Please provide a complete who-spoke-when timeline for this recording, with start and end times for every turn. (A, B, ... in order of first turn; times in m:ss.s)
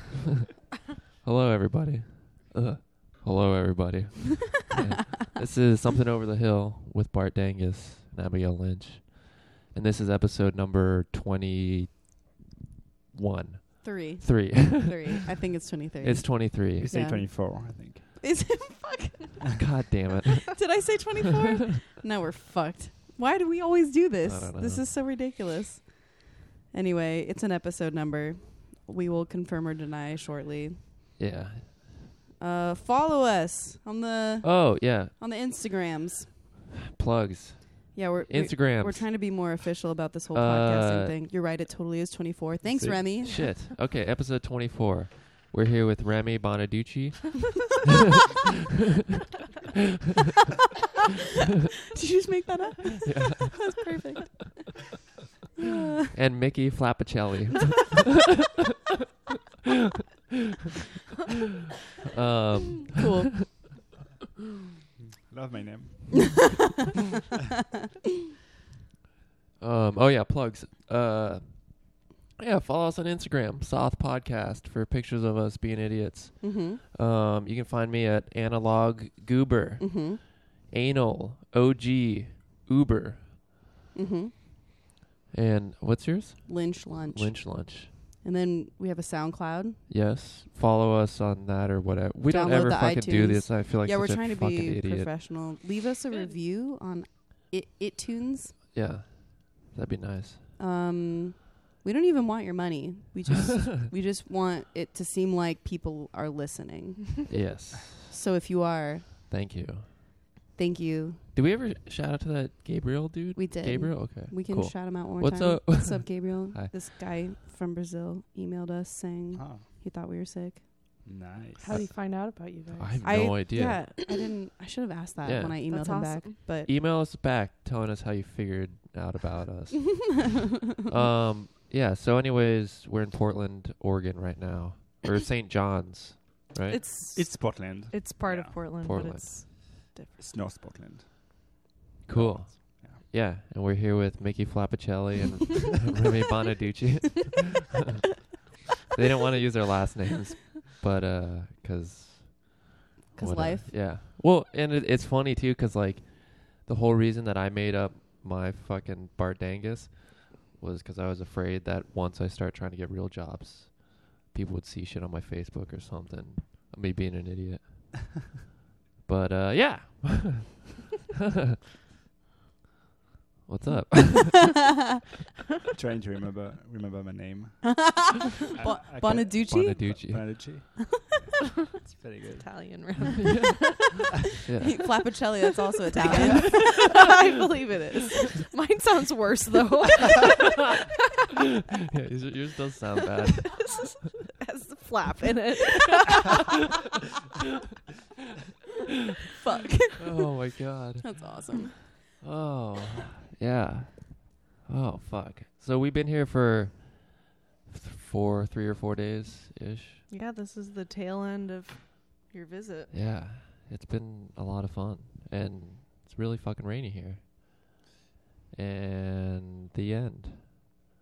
0:01.2-0:12.0 A
0:13.1-0:15.2 A
0:13.8-0:19.6 B
0:16.0-0:17.0 A
0:16.8-0:18.0 C
0:19.6-0:21.0 A
0:20.5-0:30.8 B
0:24.2-0:24.9 A
0:31.2-0:31.8 A
0:32.4-0:36.4 B
0:34.4-0:35.1 A
0:36.8-0:39.1 A
0:37.9-0:43.5 B
0:40.3-0:41.2 A
0:43.0-0:47.9 A
0:51.9-0:54.6 B
0:53.0-0:53.8 A
0:55.6-0:56.1 B
0:56.1-0:58.2 A
1:02.1-1:03.1 A
1:02.9-1:03.6 B
1:05.3-1:06.6 C
1:09.6-1:23.3 A
1:16.4-1:16.8 B
1:19.8-1:20.2 B
1:23.9-1:24.3 B
1:25.3-1:27.9 A
1:26.5-1:29.8 B
1:29.9-1:35.1 A
1:32.3-1:38.6 B
1:38.7-1:40.4 A
1:40.6-1:47.3 B
1:47.3-1:48.1 A
1:47.9-1:49.1 B
1:49.3-1:49.9 A
1:50.5-1:51.2 B
1:51.3-1:56.7 A
1:53.3-2:00.7 B
1:59.3-1:59.7 C
2:01.0-2:01.8 C
2:01.6-2:03.2 D
2:02.7-2:04.0 A
2:03.0-2:06.7 B
2:05.2-2:05.6 A
2:05.7-2:06.4 D
2:06.6-2:16.8 A
2:16.7-2:20.3 D
2:17.1-2:18.6 C
2:18.8-2:19.7 A
2:20.2-2:21.4 C
2:22.0-2:28.2 A
2:22.1-2:23.0 C
2:28.9-2:47.9 A
2:33.1-2:33.7 B
2:49.0-2:50.6 A
2:53.5-2:54.6 A
2:55.7-2:57.9 C
2:57.6-3:00.4 B
2:58.5-3:02.7 C
2:59.1-3:00.5 A
3:02.4-3:04.0 D
3:03.2-3:03.8 A
3:04.4-3:05.1 A
3:04.6-3:07.0 B
3:06.0-3:10.9 D
3:11.9-3:13.8 A
3:13.2-3:16.7 D
3:19.3-3:20.3 B
3:20.0-3:21.3 A
3:21.0-3:21.8 B
3:22.2-3:30.0 A
3:30.1-3:32.9 D
3:32.9-3:37.2 A
3:38.5-3:40.4 A